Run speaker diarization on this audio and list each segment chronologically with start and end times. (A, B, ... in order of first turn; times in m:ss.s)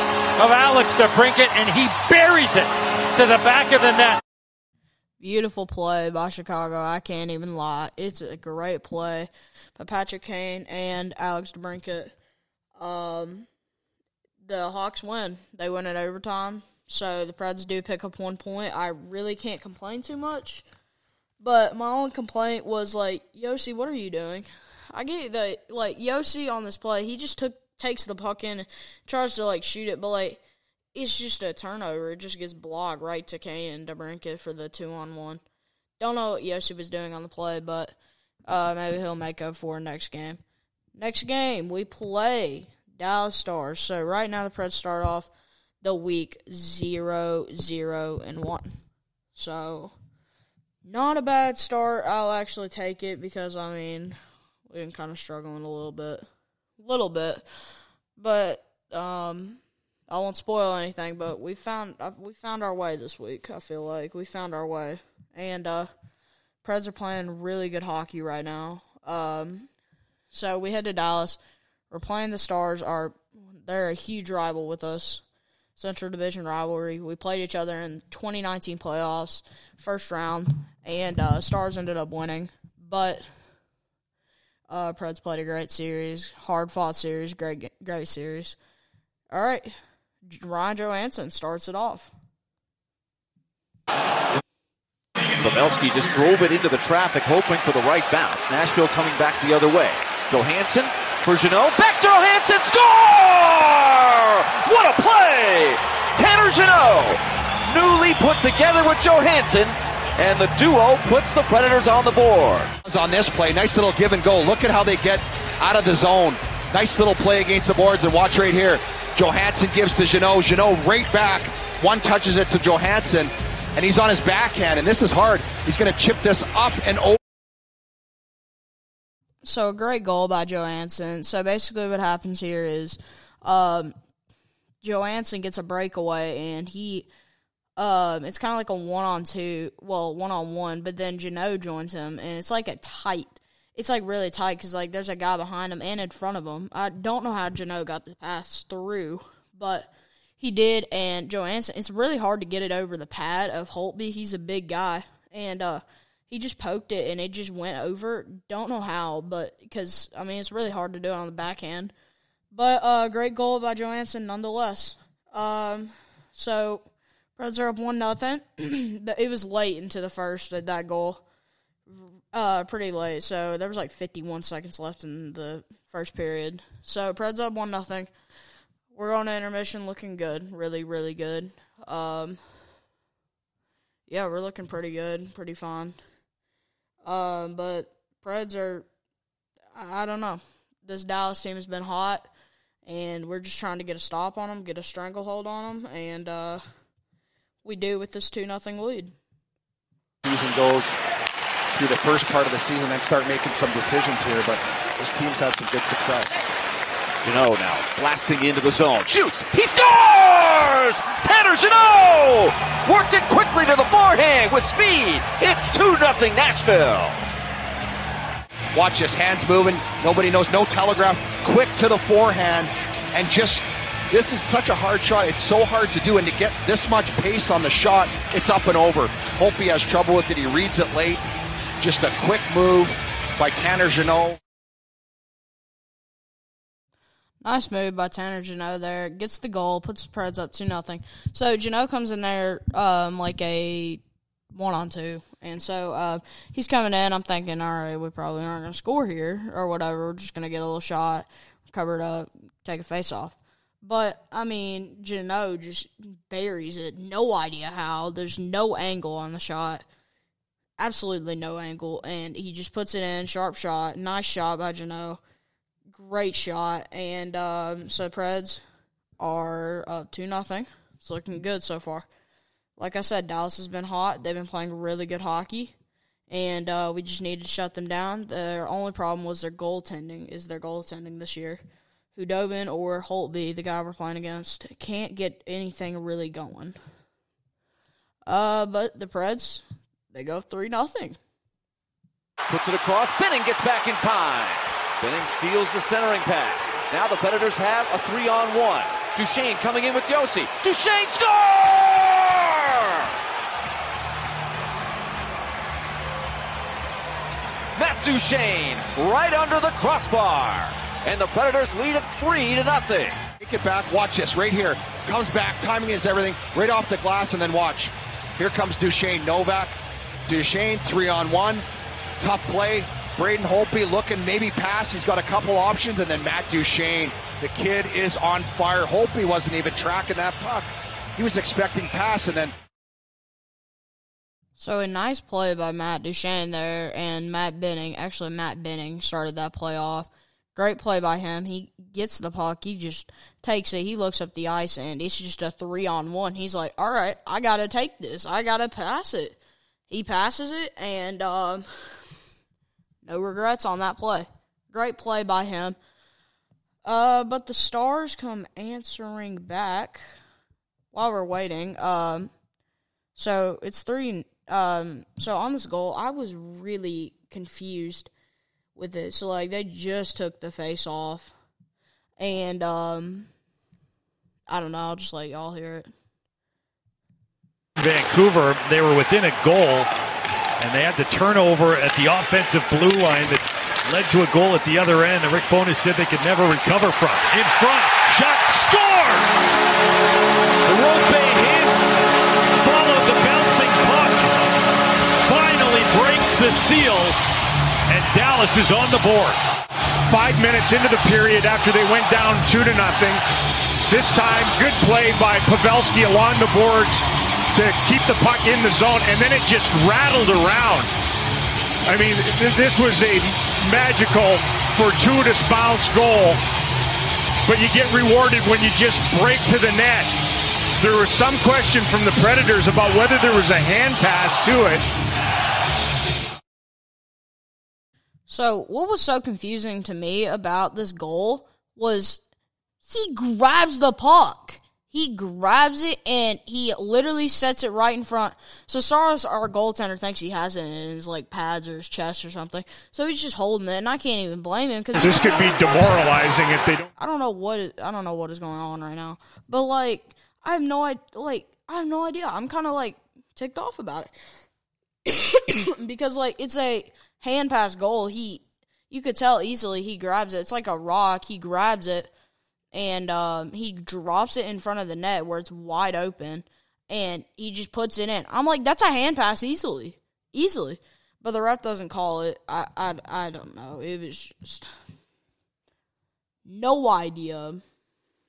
0:00.4-0:04.2 A
0:05.2-0:12.1 B
0:12.8-0:13.5 B
0:14.4-0:20.7 B
0:21.4-0:30.4 B
0:30.9-0:35.4 B
0:36.0-0:37.9 B
0:38.5-0:40.4 B
0:40.9-0:45.3 B
0:45.8-0:48.8 B
0:49.3-0:49.9 B
0:50.8-0:56.3 B
0:56.8-0:57.4 B
0:58.2-1:05.9 B
1:06.6-1:09.7 B
1:10.3-1:11.4 B
1:11.9-1:15.2 B
1:15.8-1:23.3 B
1:24.7-1:28.6 B
1:29.3-1:29.8 B
1:30.3-1:32.1 B
1:35.4-1:52.7 C
1:52.8-2:07.2 D
2:09.4-2:13.9 B
2:14.8-2:17.1 B
2:17.8-2:41.9 B
2:42.5-2:46.8 B
2:47.4-2:51.2 B
2:51.9-2:58.1 B
2:58.9-3:02.4 B
3:04.1-3:06.0 B
3:07.0-3:08.8 B
3:09.8-3:12.3 B
3:12.9-3:16.6 B
3:17.6-3:19.1 B
3:20.2-3:21.0 D
3:21.8-3:26.4 D
3:27.2-3:37.2 C
3:38.7-3:51.2 D
3:51.8-3:54.4 D
3:57.4-4:04.0 B
4:04.5-4:19.8 B
4:20.8-4:25.2 B
4:25.9-4:28.6 B
4:29.2-4:32.1 B
4:32.8-4:35.7 B
4:36.3-4:41.6 B
4:42.1-4:46.8 B
4:48.2-4:51.2 B
4:52.5-5:03.1 C
5:07.8-5:13.2 C
5:13.4-5:19.8 D
5:20.3-5:21.6 D
5:22.2-5:32.5 D
5:34.6-5:49.4 B
5:49.9-5:51.7 B
5:53.0-5:55.8 B
5:56.8-6:00.0 B
6:00.9-6:02.3 B
6:03.2-6:08.1 B
6:08.7-6:11.3 B
6:12.2-6:13.3 B
6:14.5-6:15.9 B
6:17.8-6:19.9 A
6:20.6-6:29.3 A
6:30.6-6:32.0 A
6:32.6-6:34.2 A
6:35.2-6:37.2 A
6:37.9-6:39.4 A
6:40.1-6:43.2 E
6:43.9-6:50.9 E
6:51.8-6:56.4 E
6:57.4-7:00.1 E
7:00.8-7:04.9 E
7:08.3-7:12.2 B
7:12.8-7:25.8 B
7:24.9-7:26.8 E
7:27.0-7:34.1 B
7:35.1-7:42.1 B
7:42.7-7:54.7 B
7:56.4-7:57.6 B